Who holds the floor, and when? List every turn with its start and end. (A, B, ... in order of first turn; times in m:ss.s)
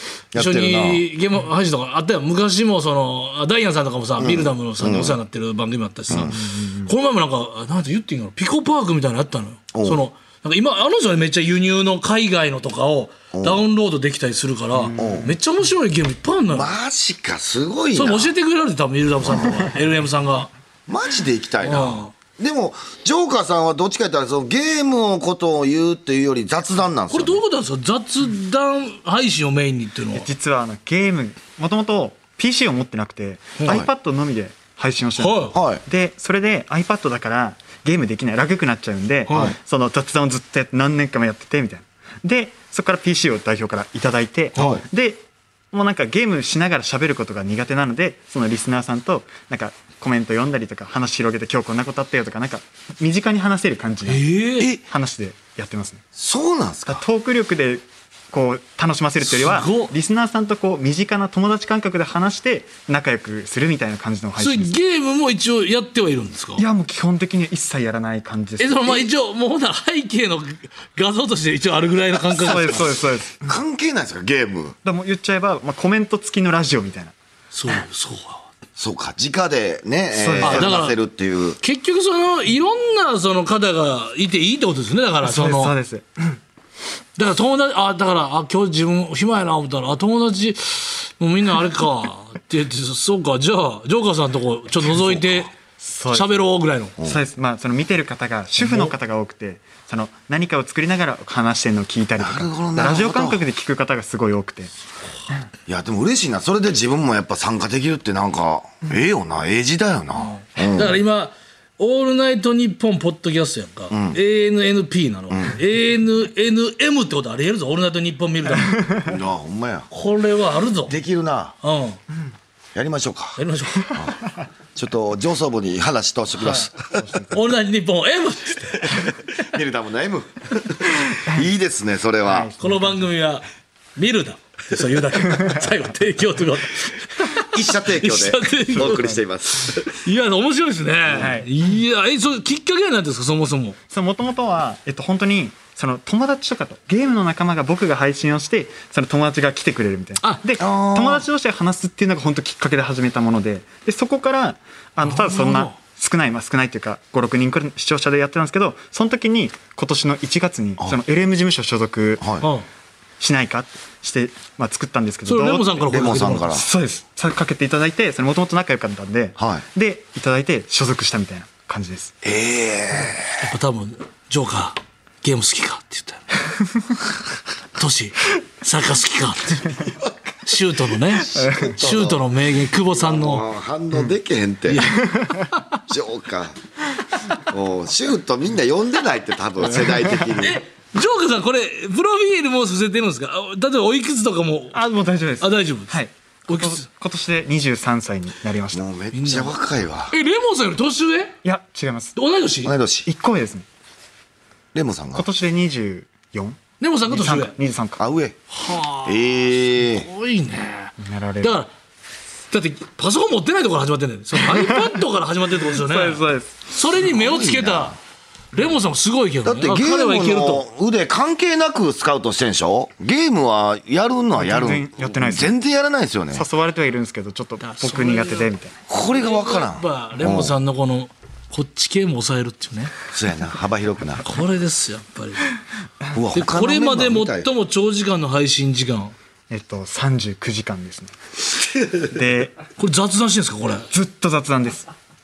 0:00.3-0:01.1 A
0:00.3-0:16.7 B
0:04.2-0:05.2 A
0:06.1-0:06.4 A
0:09.7-0:10.0 A
0:13.3-0:13.6 A
0:14.8-0:15.2 C
0:14.9-0:15.3 A
0:16.5-0:18.3 A
0:17.9-0:20.5 B
0:19.2-0:19.7 A
0:20.9-0:27.4 A
0:21.6-0:22.1 B
0:27.1-0:30.3 B
0:30.1-0:56.0 C
0:35.2-0:35.6 B
0:35.5-0:35.8 A
0:39.3-0:39.5 B
0:39.3-0:39.6 A
0:54.0-0:54.7 B
0:56.1-0:57.0 A
0:56.9-1:04.8 C
0:59.2-0:59.9 B
1:04.4-1:06.6 B
1:06.6-1:09.1 C
1:08.6-1:12.8 B
1:12.3-1:13.5 C
1:13.4-1:14.8 A
1:14.8-1:17.1 C
1:17.5-1:18.4 B
1:18.8-1:21.6 A
1:20.1-1:20.8 C
1:20.4-1:21.0 B
1:21.6-1:25.7 B
1:25.2-1:26.4 C
1:27.2-1:35.5 B
1:35.8-1:36.4 C
1:36.1-1:36.9 B
1:37.0-1:44.7 C
1:42.2-1:43.4 A
1:45.7-1:51.0 A
1:50.2-1:58.8 B
1:53.9-1:54.2 A
1:55.3-1:55.6 A
1:59.0-1:59.9 A
1:59.9-2:00.9 B
2:00.9-2:01.6 A
2:01.6-2:02.0 B
2:02.7-2:04.2 A
2:03.4-2:04.0 B
2:04.7-2:07.0 A
2:06.4-2:06.7 B
2:07.0-2:07.4 C
2:07.3-2:09.1 B
2:08.9-2:12.5 A
2:12.2-2:13.0 C
2:12.6-2:13.4 B
2:14.0-2:19.2 B
2:17.4-2:20.0 A
2:18.8-2:19.2 C
2:19.8-2:23.8 B
2:21.1-2:21.3 A
2:21.1-2:21.4 C
2:23.9-2:42.3 C
2:30.6-2:31.2 A
2:35.0-2:35.8 B
2:42.2-2:42.5 A
2:42.4-2:42.6 B
2:43.2-2:52.1 C
2:45.2-2:46.6 B
2:45.9-2:46.7 A
2:49.4-2:49.6 A
2:52.2-2:53.4 A
2:53.4-2:56.3 B
2:57.8-2:59.8 B
3:00.4-3:03.4 B
3:01.3-3:01.8 C
3:01.6-3:02.3 A
3:02.9-3:04.9 A
3:04.7-3:05.1 B
3:05.0-3:05.5 C
3:05.9-3:06.6 A
3:07.4-3:10.6 A
3:09.9-3:10.3 C
3:10.4-3:14.8 B
3:14.7-3:18.8 C
3:15.4-3:15.9 B
3:16.5-3:16.8 B
3:18.7-3:20.1 A
3:19.1-3:19.5 B
3:20.1-3:21.3 B
3:21.4-3:22.2 C
3:22.1-3:22.7 B
3:22.6-3:23.1 A
3:23.0-3:23.6 C
3:24.7-3:25.2 A
3:25.1-3:28.0 C
3:26.8-3:27.6 B
3:28.0-3:28.4 A
3:28.5-3:31.7 B
3:29.0-3:30.1 A
3:31.0-3:31.6 C
3:32.5-3:38.0 B
3:34.4-3:34.9 C
3:35.6-3:36.6 C
3:37.0-3:38.0 A
3:38.5-3:40.6 B
3:39.4-3:46.4 A
3:44.4-3:45.5 C
3:46.3-3:48.8 C
3:47.6-3:48.5 B
3:48.9-3:50.6 A
3:49.1-3:53.0 B
3:53.1-3:54.2 A
3:54.2-3:55.5 B
3:56.1-3:57.5 A
3:56.3-3:59.1 B
3:59.5-4:01.1 C
4:02.0-4:02.6 C
4:02.8-4:03.9 B
4:03.9-4:04.9 C